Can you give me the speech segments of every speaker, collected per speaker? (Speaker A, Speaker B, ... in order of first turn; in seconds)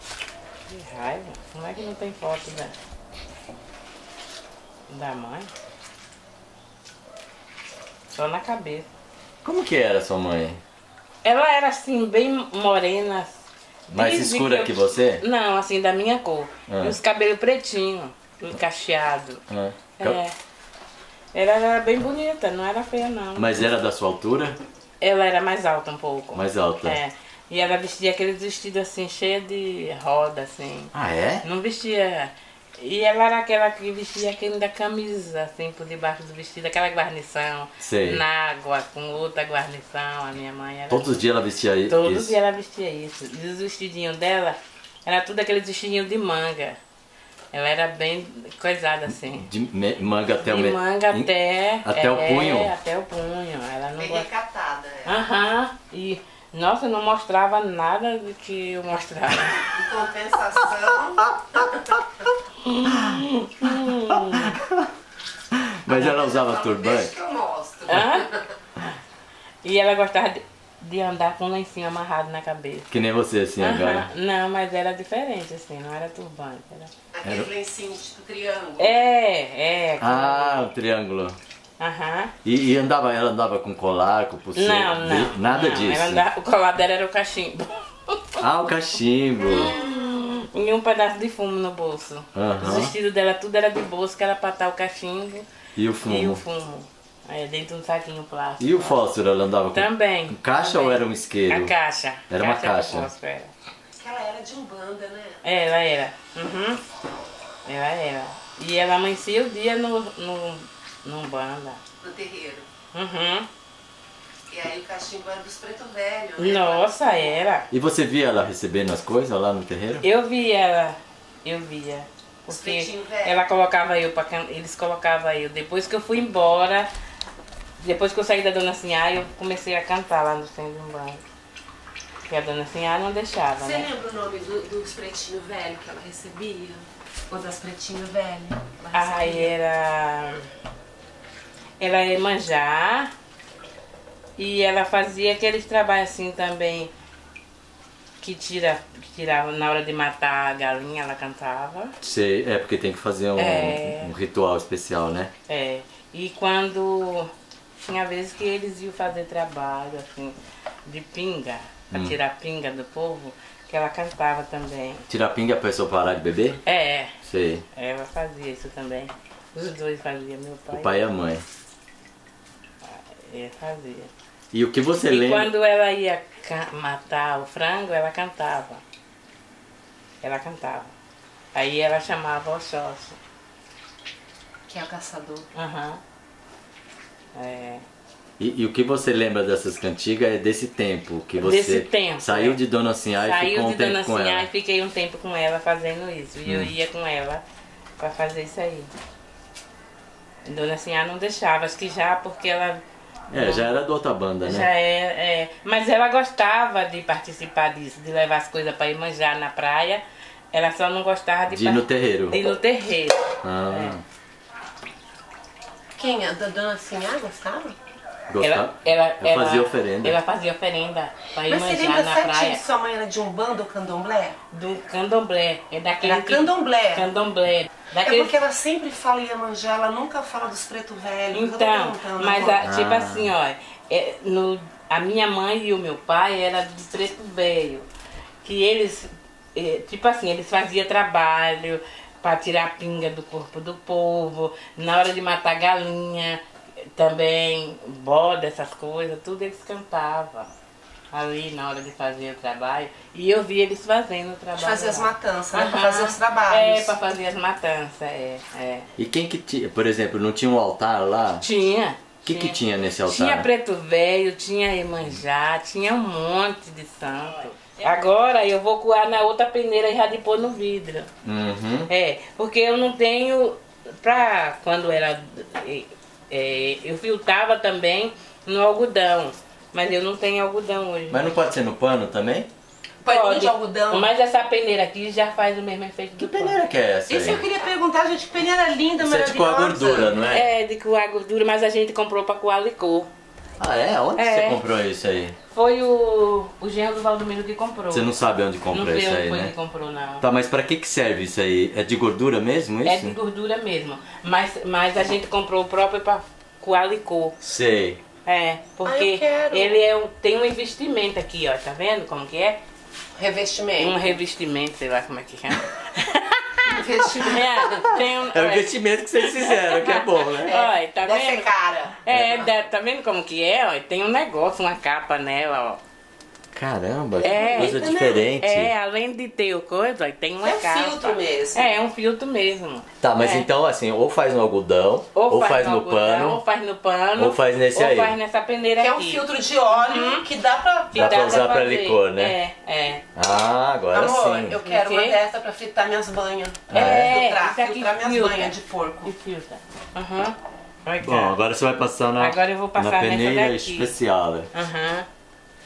Speaker A: 0.7-2.7, 4.9-5.5, 8.1-8.9, 11.2-19.4, 20.0-20.3, 21.3-23.5, 25.0-41.2, 41.9-46.8, 47.5-49.5, 50.4-54.3, 55.0-59.7, 62.6-64.6, 67.9-68.3, 69.6-72.9, 73.6-76.9, 78.8-80.7, 81.8-82.3, 84.5-88.4, 89.5-95.5, 96.0-99.0, 99.7-103.5, 105.4-106.8, 107.7-111.8, 112.9-113.5, 116.4-117.7, 120.0-126.9, 127.8-131.2, 132.3-133.9, 138.9-140.4, 141.8-143.1, 144.4-146.9, 148.2-151.9, 153.4-154.1, 155.5-157.3, 157.8-165.1, 166.7-167.1, 167.7-171.0, 172.8-174.1, 175.1-178.8, 180.2-180.9, 181.5-183.2, 185.5-186.0, 187.3-187.8, 191.4-192.6, 193.2-197.4, 198.0-198.9, 200.4-202.8, 203.3-203.7, 204.4-213.9, 218.4-222.6, 224.5-228.3, 231.3-237.8, 238.4-246.4, 246.9-250.5, 251.1-258.9, 261.4-271.1, 271.9-281.3, 283.1-286.6, 290.3-293.1, 294.2-294.6, 295.5-300.2, 302.8-307.4, 308.2-312.6, 313.8-316.7, 317.2-318.7, 319.2-321.5, 322.0-325.8, 327.2-327.8, 328.4-333.4, 335.1-340.2, 340.9-343.0, 344.6-345.1, 346.7-351.3, 352.2-353.9, 354.5-355.1
Speaker B: 9.4-10.6, 13.9-15.2, 16.7-17.0, 19.5-20.2, 23.4-24.6, 26.3-27.0, 30.9-31.4, 37.8-38.2, 40.9-42.4, 49.2-51.3, 51.8-52.7, 61.2-62.0, 62.9-64.9, 65.5-67.1, 72.9-74.1, 80.0-81.4, 82.4-86.2, 88.4-89.7, 92.3-92.9, 95.8-96.4, 98.6-101.7, 102.3-103.1, 117.7-120.0, 152.0-155.3, 165.1-166.6, 167.2-167.6, 170.7-171.4, 174.5-175.5, 188.4-194.5, 196.4-196.7, 203.3-204.7, 211.5-212.5, 213.4-214.0, 218.3-220.2, 232.6-233.3, 259.0-261.4, 262.2-263.5, 271.2-271.9, 281.1-282.5, 286.2-287.4, 289.0-290.5, 293.6-295.4, 297.9-299.5, 300.2-303.1, 307.4-308.0, 317.1-320.6, 322.1-322.4, 326.5-328.7, 333.0-336.4, 337.2-338.1, 340.9-342.4, 343.1-344.6, 346.7-347.2, 351.0-354.5
Speaker C: 54.0-55.1, 59.7-62.0, 65.9-68.4, 77.1-79.0, 104.0-105.4, 112.0-112.7, 114.5-117.3, 122.5-123.4, 133.6-139.5, 184.7-185.5, 216.0-217.7, 221.5-224.4, 226.0-227.1, 228.0-232.6, 254.6-256.9, 283.0-284.1, 287.1-290.2, 308.8-309.8, 313.2-314.2, 316.6-317.6, 320.4-322.0, 327.2-328.3, 330.4-331.7, 338.8-341.1, 343.9-349.1